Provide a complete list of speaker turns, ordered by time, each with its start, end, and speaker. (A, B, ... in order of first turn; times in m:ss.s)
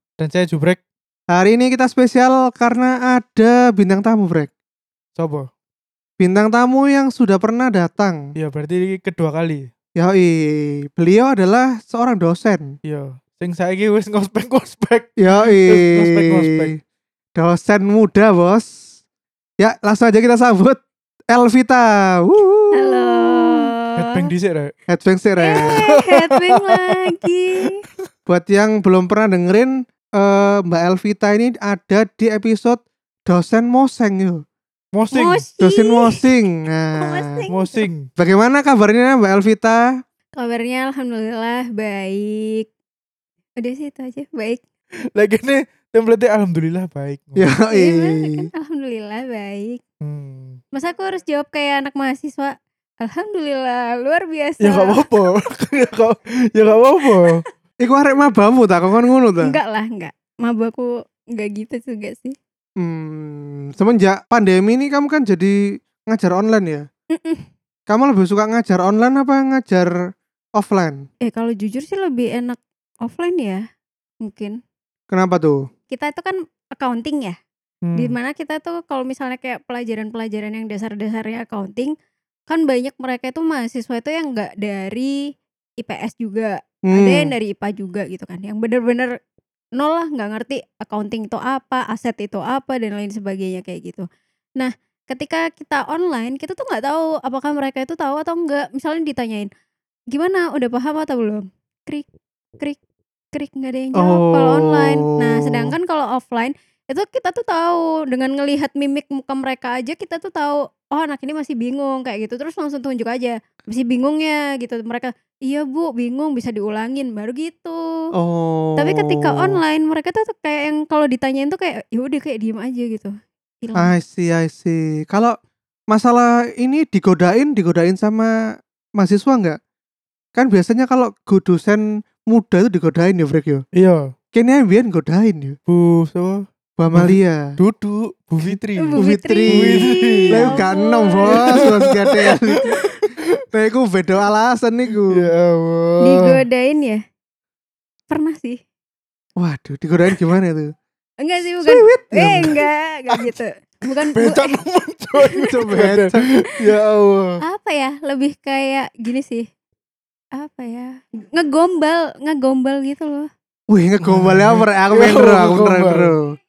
0:00.2-0:00.8 A
0:01.3-0:04.5 B
0:05.2-0:05.5 A
0:06.2-0:08.2 B
0:08.3-0:09.7 A
0:10.0-0:12.7 B
0:12.8-0:16.7 A
0:15.2-0:16.7 B
0:17.3-0:18.7 B
0:19.6-0:23.5 B
0:22.7-0:24.2 C
0:24.0-0:24.7 A
0:24.9-0:25.8 B
0:25.4-0:27.8 C
0:25.6-0:27.1 A
0:28.3-0:34.4 B
0:34.9-0:35.4 A
0:35.1-0:36.2 C
0:35.6-0:37.4 B
0:36.9-0:37.8 C
0:37.5-0:38.1 A
0:38.2-0:39.8 B
0:40.3-0:42.7 C
0:43.6-0:44.6 C
0:45.2-0:47.5 A
0:47.4-0:48.4 B
0:47.7-0:49.8 C
0:50.0-0:50.6 A
0:50.7-0:55.0 C
0:54.6-0:57.4 A
0:57.8-0:59.6 B
0:59.4-1:02.4 C
1:02.8-1:06.9 B
1:07.1-1:07.4 C
1:07.9-1:09.9 B
1:10.6-1:11.1 B
1:11.2-1:13.6 C
1:14.2-1:14.6 C
1:15.1-1:15.6 B
1:15.9-1:17.4 C
1:17.8-1:18.1 A
1:18.0-1:21.9 C
1:22.5-1:25.2 C
1:25.8-1:29.1 C
1:26.9-1:27.3 B
1:29.8-1:34.0 C
1:34.6-1:39.5 C
1:40.1-1:42.1 C
1:43.3-1:57.8 C
1:44.0-1:45.7 B
1:58.1-1:59.6 B
1:58.8-2:03.9 C
2:03.8-2:05.4 B
2:05.9-2:08.3 B
2:09.0-2:09.6 B
2:10.3-2:13.6 B
2:13.7-2:14.1 A
2:14.3-2:15.6 B
2:15.7-2:18.9 A
2:16.8-2:17.5 B
2:18.8-2:21.8 C
2:19.0-2:22.7 B
2:19.5-2:20.6 A
2:21.3-2:23.1 A
2:23.5-2:25.3 B
2:25.1-2:26.4 A
2:26.0-2:27.0 C
2:28.1-2:28.6 C
2:29.4-2:30.7 B
2:31.2-2:34.6 C
2:31.6-2:32.6 B
2:33.1-2:33.4 A
2:34.1-2:37.4 A
2:35.4-2:36.2 B
2:37.4-2:39.5 C
2:40.3-2:43.3 C
2:43.7-2:46.2 B
2:44.0-2:46.1 A